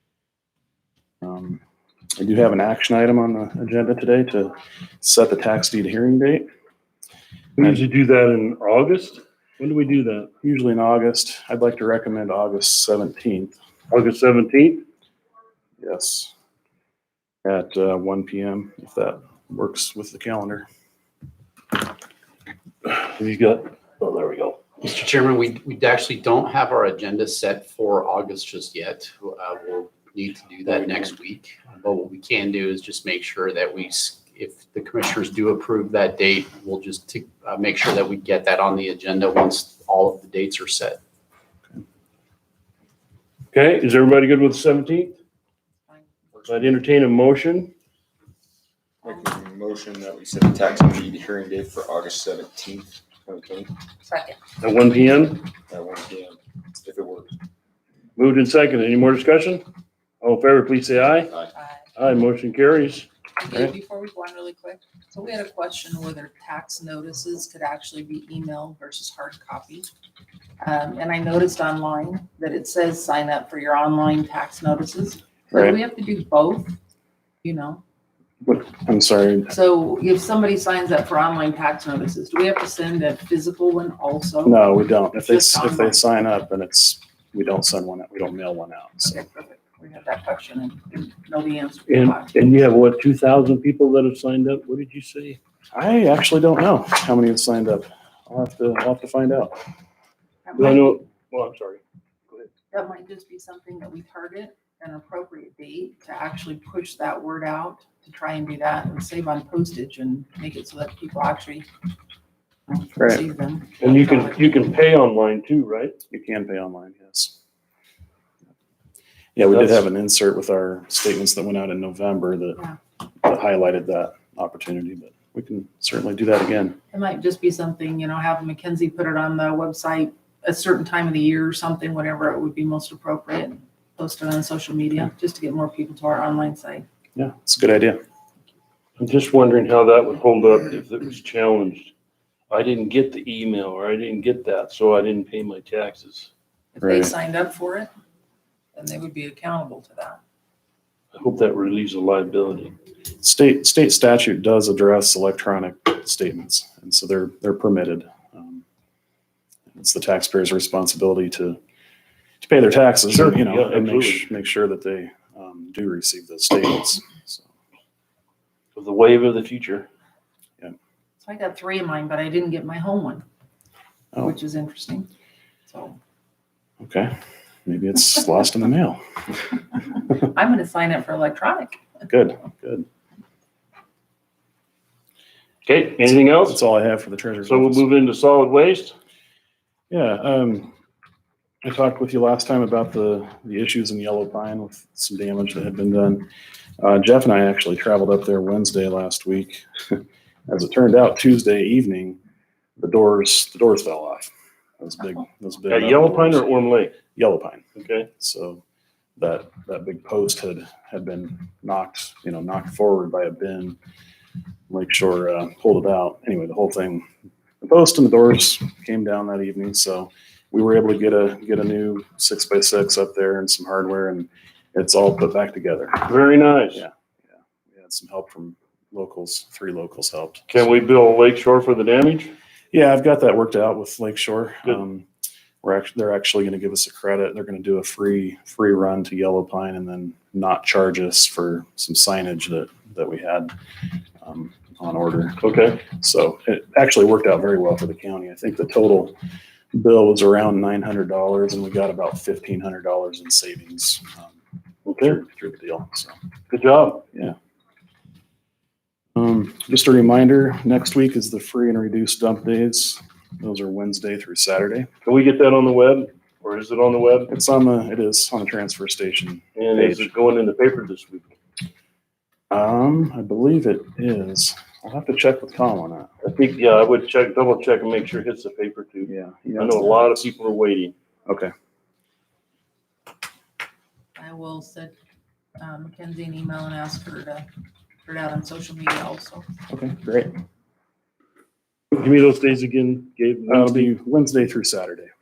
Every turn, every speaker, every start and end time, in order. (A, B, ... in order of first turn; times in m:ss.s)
0:01.2-0:01.6 A
0:02.2-0:06.5 A
0:07.6-0:10.3 B
0:07.6-0:07.8 A
0:10.4-0:13.6 A
0:13.9-0:14.8 B
0:15.8-0:16.3 A
0:17.4-0:20.6 A
0:22.9-0:24.7 B
0:24.8-0:41.0 C
0:43.5-0:45.2 B
0:46.3-0:46.8 D
0:46.5-0:47.7 B
0:49.0-0:53.7 D
0:54.0-0:54.4 E
0:54.6-0:55.5 B
0:55.7-0:57.3 D
0:58.2-0:59.7 B
1:00.2-1:01.3 B
1:01.5-1:01.8 E
1:02.0-1:03.1 B
1:03.4-1:09.9 E
1:10.6-1:16.8 E
1:15.5-1:15.8 A
1:17.4-1:17.8 E
1:18.4-1:19.5 A
1:19.5-1:26.0 E
1:24.4-1:29.2 A
1:29.1-1:32.5 E
1:31.9-1:35.4 B
1:35.7-1:39.6 A
1:40.4-1:41.0 E
1:40.6-1:42.5 B
1:42.7-1:51.7 E
1:52.7-1:54.7 E
1:53.0-1:53.2 A
1:53.8-1:56.0 B
1:56.1-1:57.4 A
1:59.4-2:02.6 A
1:59.5-1:59.8 B
2:03.2-2:06.8 A
2:06.9-2:16.8 E
2:17.2-2:18.0 A
2:19.0-2:21.9 B
2:22.5-2:26.3 B
2:26.8-2:27.9 E
2:26.8-2:27.1 A
2:28.8-2:30.2 E
2:31.1-2:32.8 B
2:33.2-2:38.6 A
2:39.7-2:41.6 A
2:42.4-2:47.5 A
2:43.1-2:44.3 B
2:48.8-2:49.9 B
2:51.2-2:53.2 E
2:54.2-2:55.1 E
2:55.7-2:56.0 E
2:56.8-2:57.2 A
2:57.7-2:59.0 A
3:00.1-3:01.8 E
3:02.1-3:02.8 A
3:05.6-3:06.6 B
3:06.1-3:07.9 A
3:07.4-3:09.0 B
3:09.9-3:10.7 A
3:11.6-3:16.3 A
3:16.8-3:22.2 A
3:22.8-3:24.3 A
3:24.8-3:26.5 A
3:25.7-3:27.0 B
3:27.1-3:27.7 A
3:27.8-3:28.1 B
3:28.2-3:28.6 A
3:29.2-3:33.8 A
3:34.7-3:37.1 A
3:37.6-3:46.1 A
3:46.0-3:46.8 B
3:47.7-3:50.6 A
3:50.5-3:52.3 B
3:52.7-3:55.1 A
3:55.6-4:03.5 A
4:04.2-4:09.2 A
4:05.4-4:05.8 B
4:09.7-4:14.3 A
4:14.8-4:15.2 B
4:15.0-4:16.1 A
4:16.5-4:17.0 B
4:19.2-4:24.9 A
4:25.0-4:27.3 B
4:27.3-4:30.1 A
4:29.6-4:31.4 B
4:32.5-4:36.1 A
4:36.2-4:41.0 B
4:39.0-4:40.3 A
4:44.2-4:45.0 E
4:45.6-4:47.5 E
4:48.0-4:49.5 E
4:49.7-4:50.3 A
4:51.9-4:53.9 B
4:53.5-4:55.1 A